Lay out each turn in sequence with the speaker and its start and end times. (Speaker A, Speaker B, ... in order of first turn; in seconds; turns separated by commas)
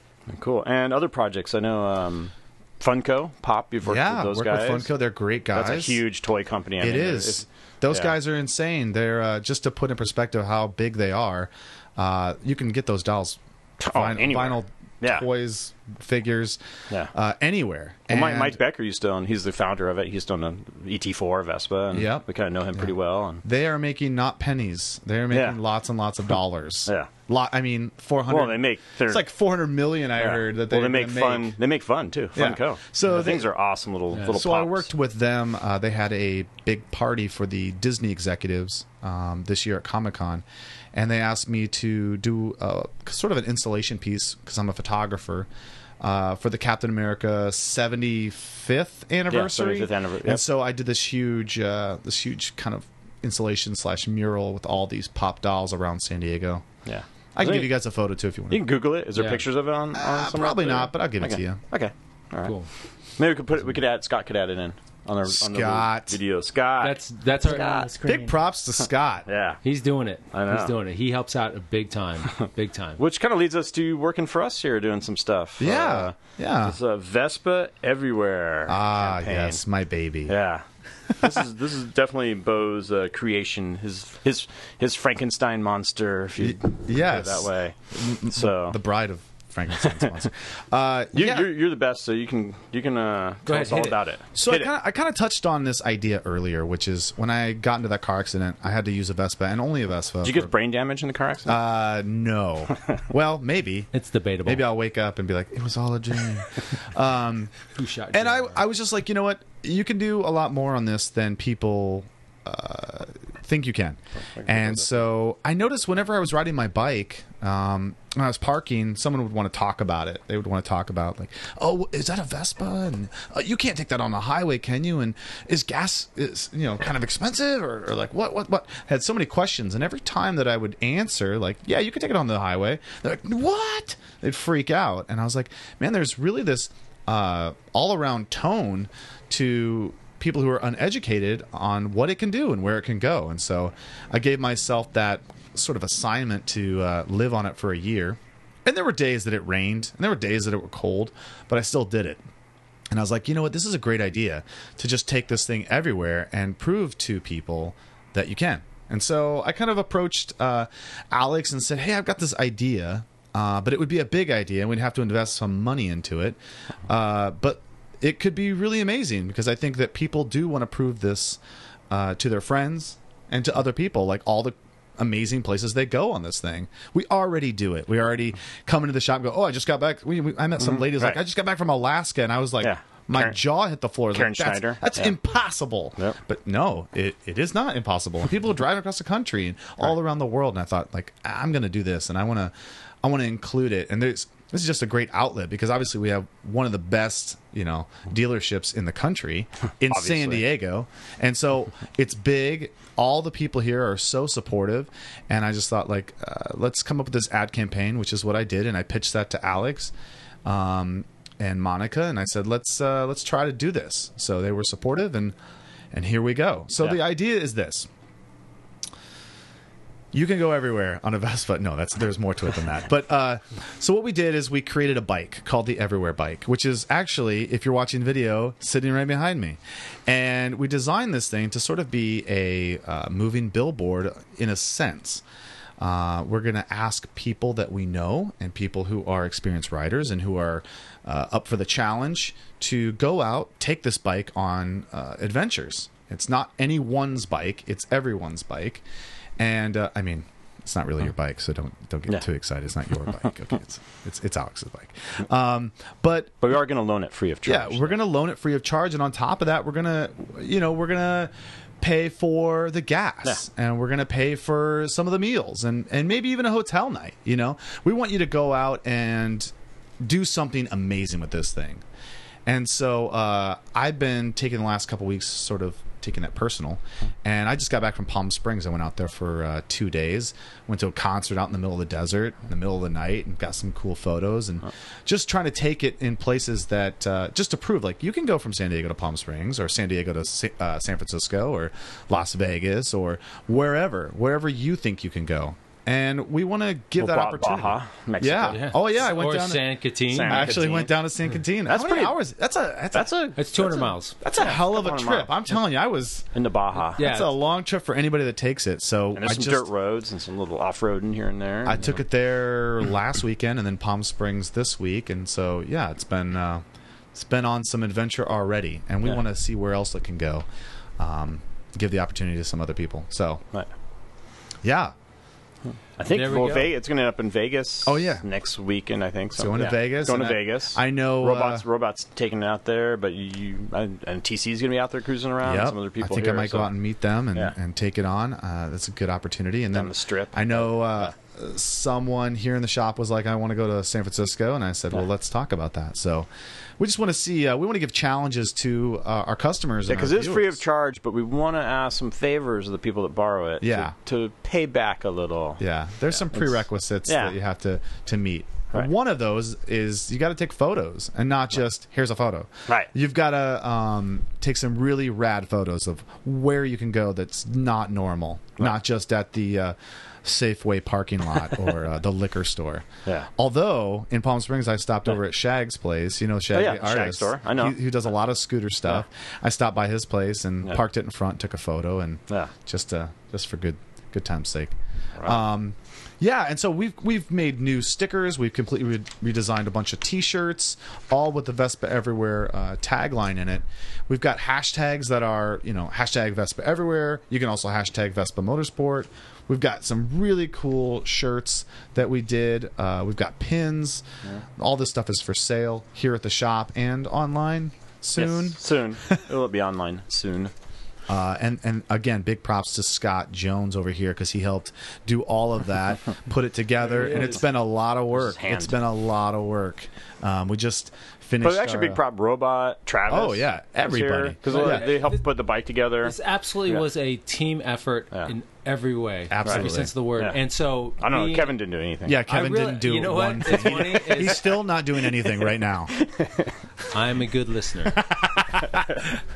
Speaker A: 0.3-4.9, Speaker B: 3.9-6.0, Speaker A: 5.5-8.2, Speaker B: 6.8-16.6, Speaker A: 13.8-15.3, Speaker B: 17.1-18.6, Speaker A: 18.1-23.4, Speaker B: 21.9-22.9, Speaker B: 23.4-31.6, Speaker A: 25.3-25.6, Speaker A: 28.3-29.2, Speaker A: 30.2-34.9, Speaker B: 32.4-33.5, Speaker B: 34.3-45.5, Speaker B: 46.0-56.7, Speaker A: 49.3-50.4, Speaker A: 56.9-57.8, Speaker B: 57.4-58.7, Speaker A: 58.5-62.5, Speaker C: 59.1-59.4, Speaker B: 60.0-61.6, Speaker A: 63.2-68.1, Speaker B: 65.3-66.2, Speaker C: 66.8-68.3, Speaker B: 68.0-69.3, Speaker A: 69.3-69.6, Speaker C: 69.6-73.0, Speaker A: 70.3-70.7, Speaker A: 73.0-79.6, Speaker B: 75.6-76.8, Speaker B: 78.7-80.4, Speaker A: 80.3-80.6, Speaker B: 81.1-81.4, Speaker A: 81.2-88.8, Speaker B: 86.4-91.5, Speaker A: 89.8-90.1, Speaker A: 91.1-94.7, Speaker C: 93.5-94.0, Speaker B: 94.3-100.5, Speaker A: 100.2-101.6, Speaker B: 101.5-103.9, Speaker C: 103.9-104.7, Speaker B: 104.5-107.6, Speaker C: 107.7-108.7, Speaker B: 108.1-152.2, Speaker A: 114.2-115.0, Speaker B: 152.9-209.9, Speaker A: 180.6-181.2, Speaker A: 182.6-183.4, Speaker A: 184.1-185.2, Speaker A: 199.9-200.5, Speaker B: 210.4-215.3, Speaker B: 215.9-217.9, Speaker B: 220.1-235.2, Speaker B: 235.8-248.8, Speaker B: 249.4-256.4, Speaker A: 256.4-258.0, Speaker B: 257.4-271.8, Speaker B: 272.5-299.6, Speaker A: 297.0-298.7, Speaker C: 298.5-300.6, Speaker A: 300.1-300.9, Speaker B: 300.3-303.1, Speaker A: 301.7-302.2, Speaker A: 302.9-305.4, Speaker C: 303.4-304.2, Speaker B: 304.2-306.3, Speaker A: 306.4-307.1, Speaker B: 306.9-309.7, Speaker C: 307.0-307.3, Speaker A: 309.1-312.0, Speaker B: 311.6-320.4, Speaker B: 321.0-323.4, Speaker B: 324.6-324.9, Speaker A: 326.0-336.7, Speaker C: 326.1-326.7, Speaker B: 327.9-328.2, Speaker B: 329.4-331.6, Speaker B: 335.4-346.3, Speaker A: 339.7-341.1, Speaker B: 346.8-350.6, Speaker A: 349.9-355.6, Speaker B: 353.6-353.9, Speaker B: 355.6-404.1, Speaker A: 356.2-357.4, Speaker A: 376.5-377.8, Speaker B: 404.6-409.2, Speaker A: 408.2-410.5, Speaker B: 411.1-422.0, Speaker C: 416.8-417.4, Speaker A: 418.1-418.8, Speaker A: 421.4-426.2, Speaker B: 423.1-424.9, Speaker C: 424.4-425.2, Speaker C: 426.0-431.5, Speaker B: 429.3-429.9, Speaker A: 429.4-430.4, Speaker A: 431.0-432.2, Speaker B: 432.1-435.9, Speaker C: 432.3-434.5, Speaker A: 433.6-434.4, Speaker A: 435.1-436.5, Speaker C: 436.9-438.0, Speaker B: 438.0-438.9